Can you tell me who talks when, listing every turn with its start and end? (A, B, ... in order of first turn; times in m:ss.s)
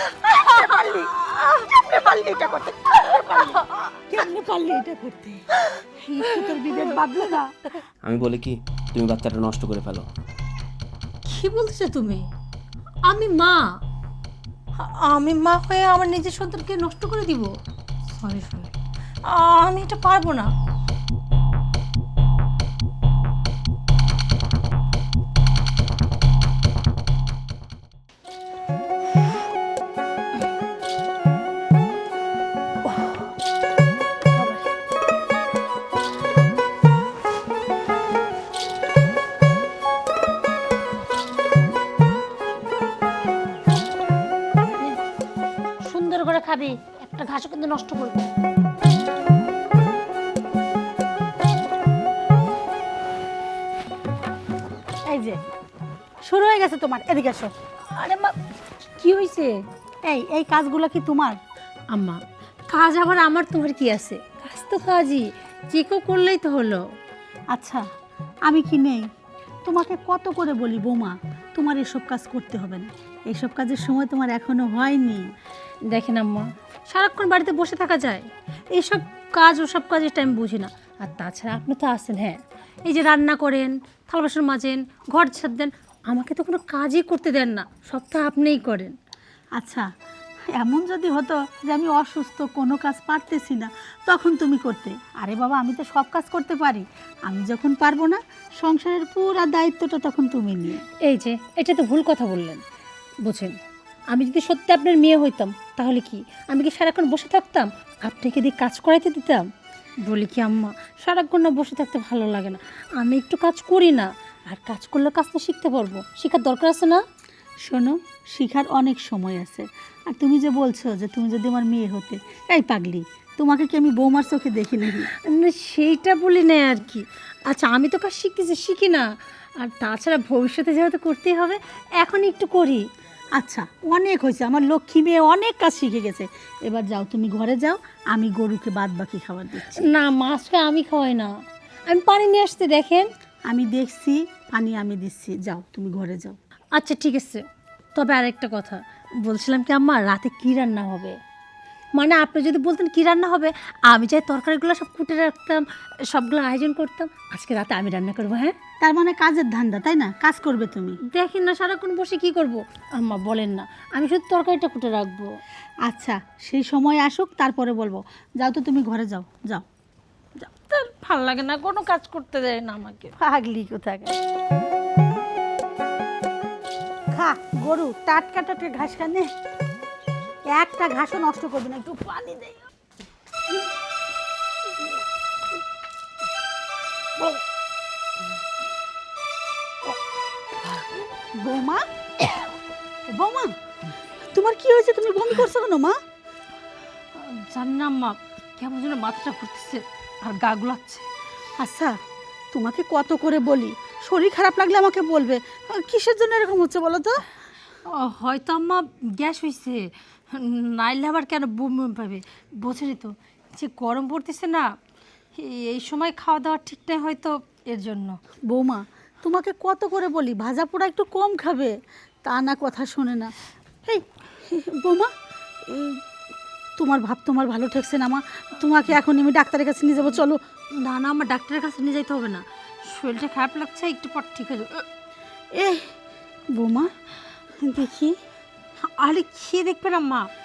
0:00.2-0:05.4 A
0:01.3-0:01.5 B
0:06.0-0:07.5 A
0:08.0-0:10.1 C
0:11.2-0:12.2 B
0:13.1-0:13.6 B
0:14.8-0:17.5 B
0:18.1-0:18.7 B
0:19.2-0:20.5 B
0:32.8-0:33.3 B
0:34.3-0:34.7 B
0:45.8-0:48.3 B
0:55.1-0:55.4 A
0:56.2-0:57.5 A
0:57.9-0:58.3 B
0:59.0-0:59.5 B
1:00.0-1:01.4 A
1:01.9-1:06.8 B
1:07.5-1:07.8 A
1:08.5-1:09.1 A
1:09.6-1:15.2 A
1:15.9-1:28.9 B
1:29.6-1:29.9 A
1:30.5-1:40.8 A
1:41.0-1:42.6 B
1:43.2-1:43.6 B
1:44.1-1:49.4 B
1:50.0-1:57.0 B
1:57.6-2:05.1 A
2:05.2-2:09.1 B
2:09.6-2:12.8 B
2:13.4-2:19.8 A
2:19.8-2:21.3 B
2:21.9-2:23.0 B
2:23.5-2:26.4 A
2:26.8-2:27.4 B
2:27.9-2:31.2 B
2:32.0-2:38.5 B
2:38.8-2:41.0 A
2:41.1-2:45.3 B
2:45.9-2:49.6 A
2:50.6-2:53.1 B
2:53.2-2:54.2 A
2:57.1-2:59.2 A
3:00.5-3:02.6 A
3:11.4-3:12.3 A
3:13.1-3:13.5 A
3:14.3-3:15.9 A
3:17.2-3:21.0 B
3:21.6-3:21.9 A
3:22.5-3:27.1 A
3:27.9-3:34.7 B
3:35.4-3:38.2 B
3:38.5-3:41.7 A
3:42.2-3:43.3 A
3:43.9-3:45.1 A
3:45.7-3:46.0 A
3:46.8-3:50.4 A
3:50.8-3:54.8 B
3:55.5-3:55.9 A
3:56.5-3:56.9 A
3:57.6-3:58.1 A
3:58.8-4:00.3 B